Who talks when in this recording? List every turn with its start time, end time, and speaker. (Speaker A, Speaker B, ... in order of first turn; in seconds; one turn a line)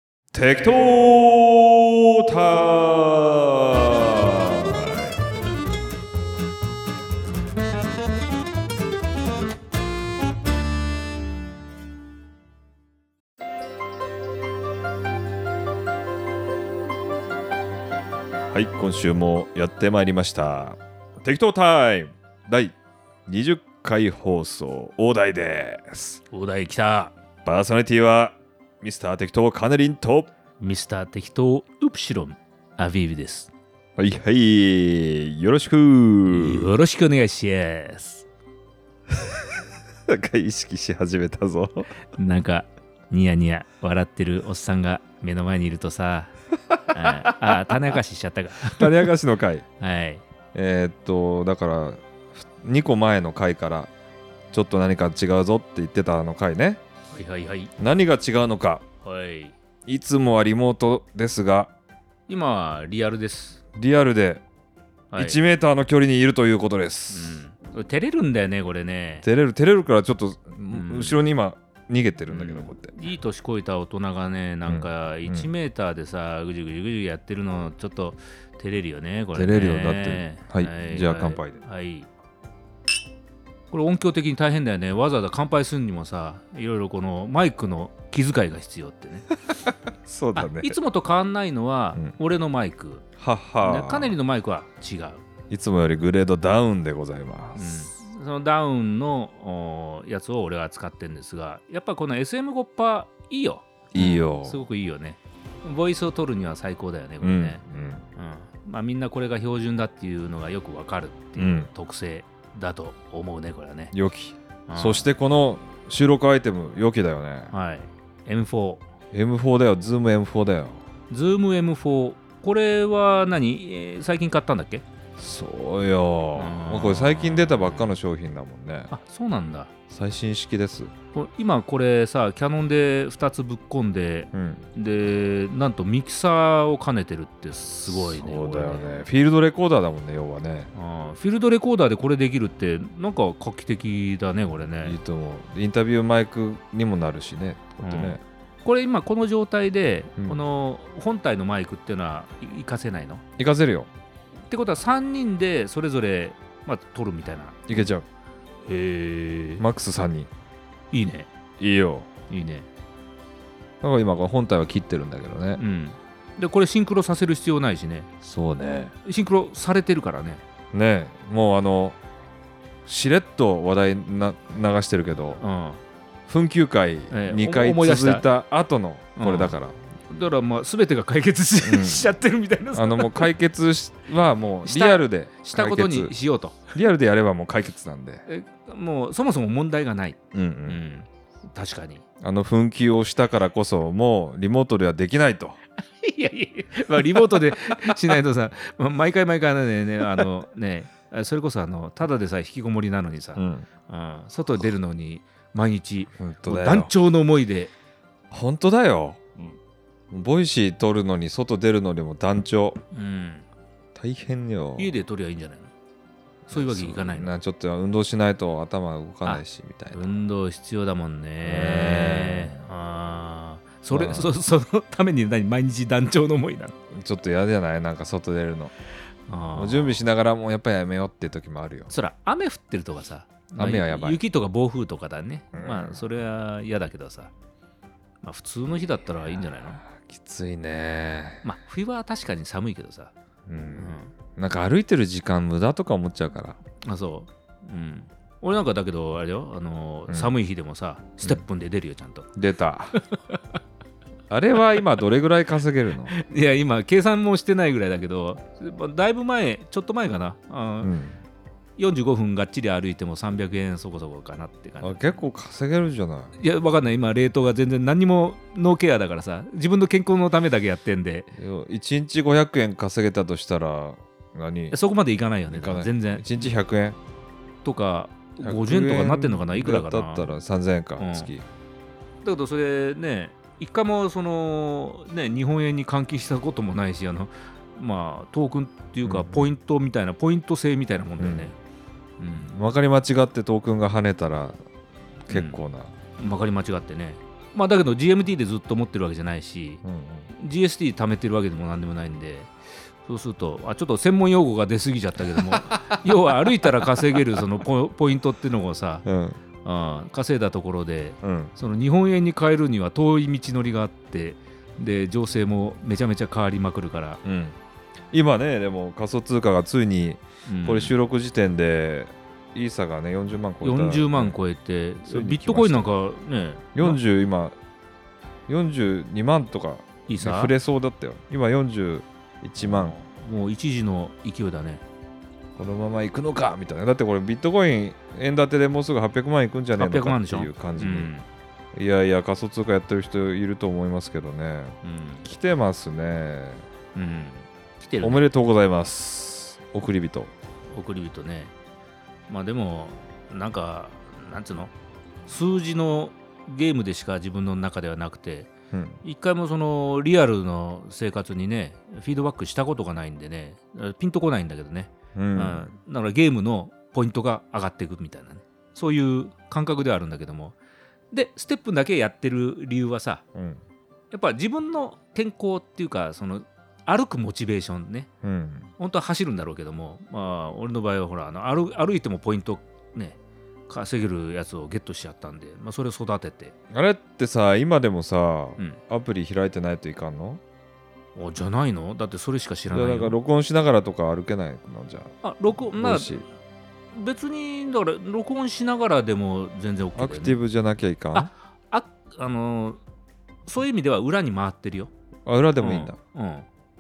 Speaker A: 0.3-5.2
Speaker A: 18.5-22.8
Speaker A: 23.3-26.2
Speaker B: 26.3-27.1
Speaker A: 27.4-30.3
Speaker B: 30.6-33.5
Speaker A: 34.0-36.7
Speaker B: 36.3-38.3
Speaker A: 40.1-41.9
Speaker B: 42.2-46.3
Speaker B: 46.9-49.1
Speaker A: 47.0-47.9
Speaker A: 48.7-49.7
Speaker B: 49.8-50.2
Speaker A: 50.5-53.9
Speaker A: 54.5-56.8
Speaker B: 57.1-57.7
Speaker A: 57.8-58.8
Speaker B: 59.0-59.5
Speaker A: 59.9-61.7
Speaker B: 62.3-63.6
Speaker A: 63.8-64.4
Speaker B: 65.1-65.4
Speaker A: 65.2-67.4
Speaker B: 67.1-69.2
Speaker A: 69.2-73.0
Speaker B: 70.7-71.2
Speaker B: 72.3-82.1
Speaker A: 74.7-75.5
Speaker A: 79.3-81.6
Speaker B: 83.7-89.3
Speaker A: 89.6-90.8
Speaker B: 90.4-93.1
Speaker A: 93.2-94.2
Speaker B: 93.6-95.2
Speaker A: 95.5-97.9
Speaker B: 97.6-107.6
Speaker A: 103.9-104.6
Speaker A: 107.2-108.0
Speaker B: 108.2-113.9
Speaker A: 111.4-111.7
Speaker A: 113.9-117.5
Speaker B: 114.7-115.1
Speaker B: 117.5-118.9
Speaker A: 119.1-120.8
Speaker B: 121.1-124.8
Speaker A: 125.2-128.9
Speaker B: 126.4-128.0
Speaker B: 128.9-129.7
Speaker A: 129.9-130.9
Speaker B: 131.1-138.9
Speaker A: 134.3-134.7
Speaker A: 137.9-140.7
Speaker B: 140.7-145.0
Speaker A: 144.8-148.2
Speaker B: 147.8-153.2
Speaker A: 150.2-150.4
Speaker A: 153.4-153.9
Speaker B: 154.5-157.6
Speaker A: 157.7-158.1
Speaker B: 158.7-159.6
Speaker A: 159.6-160.3
Speaker B: 160.9-161.3
Speaker A: 161.6-162.1
Speaker B: 162.3-162.7
Speaker A: 163.8-165.6
Speaker B: 165.6-168.1
Speaker A: 168.2-168.9
Speaker B: 169.1-170.4
Speaker A: 170.7-172.0
Speaker A: 172.9-175.4
Speaker B: 175.4-175.8
Speaker A: 176.3-179.8
Speaker B: 177.1-178.3
Speaker B: 179.2-179.6
Speaker B: 180.1-183.3
Speaker A: 181.6-182.1
Speaker A: 182.7-186.2
Speaker B: 184.6-186.7
Speaker A: 186.7-188.2
Speaker B: 188.3-192.0
Speaker A: 190.3-190.8
Speaker A: 192.2-195.6
Speaker B: 196.0-207.7
Speaker A: 203.4-203.7
Speaker A: 206.2-206.9
Speaker A: 208.3-209.2
Speaker A: 210.1-212.8
Speaker B: 212.9-213.5
Speaker A: 213.9-215.0
Speaker B: 214.8-215.7
Speaker B: 216.5-217.3
Speaker A: 216.5-220.2
Speaker B: 219.2-226.8
Speaker A: 221.4-222.7
Speaker A: 223.9-224.3
Speaker A: 226.9-228.7
Speaker B: 229.3-230.0
Speaker A: 229.6-231.9
Speaker B: 231.9-237.3
Speaker A: 233.6-234.2
Speaker A: 235.5-236.0
Speaker B: 238.2-239.8
Speaker A: 239.3-241.4
Speaker B: 241.4-243.1
Speaker A: 243.5-246.6
Speaker B: 243.8-244.1
Speaker B: 246.8-252.3
Speaker A: 252.4-253.0
Speaker B: 253.1-253.4
Speaker A: 254.3-256.1
Speaker B: 256.1-260.9
Speaker A: 260.8-261.2
Speaker B: 261.8-265.2
Speaker A: 264.8-266.3
Speaker B: 266.4-271.3
Speaker A: 271.4-274.8
Speaker B: 274.7-276.5
Speaker A: 275.5-277.0
Speaker B: 277.6-280.3
Speaker A: 278.4-281.5
Speaker B: 281.0-281.3
Speaker B: 282.2-291.6
Speaker A: 289.1-289.5
Speaker A: 291.2-291.5
Speaker B: 292.2-292.5
Speaker A: 292.4-294.6
Speaker A: 295.3-295.9
Speaker B: 295.3-295.6
Speaker B: 296.2-299.8
Speaker A: 299.8-300.3
Speaker B: 300.3-309.1
Speaker A: 305.7-306.9
Speaker A: 309.1-309.4
Speaker B: 309.6-317.2
Speaker A: 311.2-311.5
Speaker A: 317.2-317.6
Speaker A: 318.1-324.4
Speaker B: 320.5-320.9
Speaker B: 323.6-327.0
Speaker A: 325.1-325.9
Speaker A: 326.8-327.6
Speaker A: 328.5-333.0
Speaker B: 330.1-330.5
Speaker B: 332.6-334.8
Speaker A: 335.6-341.1
Speaker B: 339.8-341.3
Speaker A: 341.7-346.7
Speaker B: 344.8-345.3
Speaker B: 346.9-348.2
Speaker A: 348.0-350.3
Speaker B: 350.7-351.5
Speaker B: 352.3-354.7
Speaker B: 355.3-358.5
Speaker A: 358.7-359.0
Speaker B: 359.0-370.6
Speaker A: 365.1-365.7
Speaker B: 371.1-373.2
Speaker A: 373.4-373.6
Speaker B: 374.1-378.1
Speaker A: 378.2-378.7
Speaker B: 378.8-386.5
Speaker A: 386.7-390.4
Speaker B: 391.1-393.2
Speaker A: 392.7-396.3
Speaker B: 395.2-396.3
Speaker B: 396.9-400.4
Speaker A: 400.0-401.3
Speaker B: 401.1-402.8
Speaker B: 403.5-404.9
Speaker A: 405.3-406.0
Speaker B: 405.6-406.5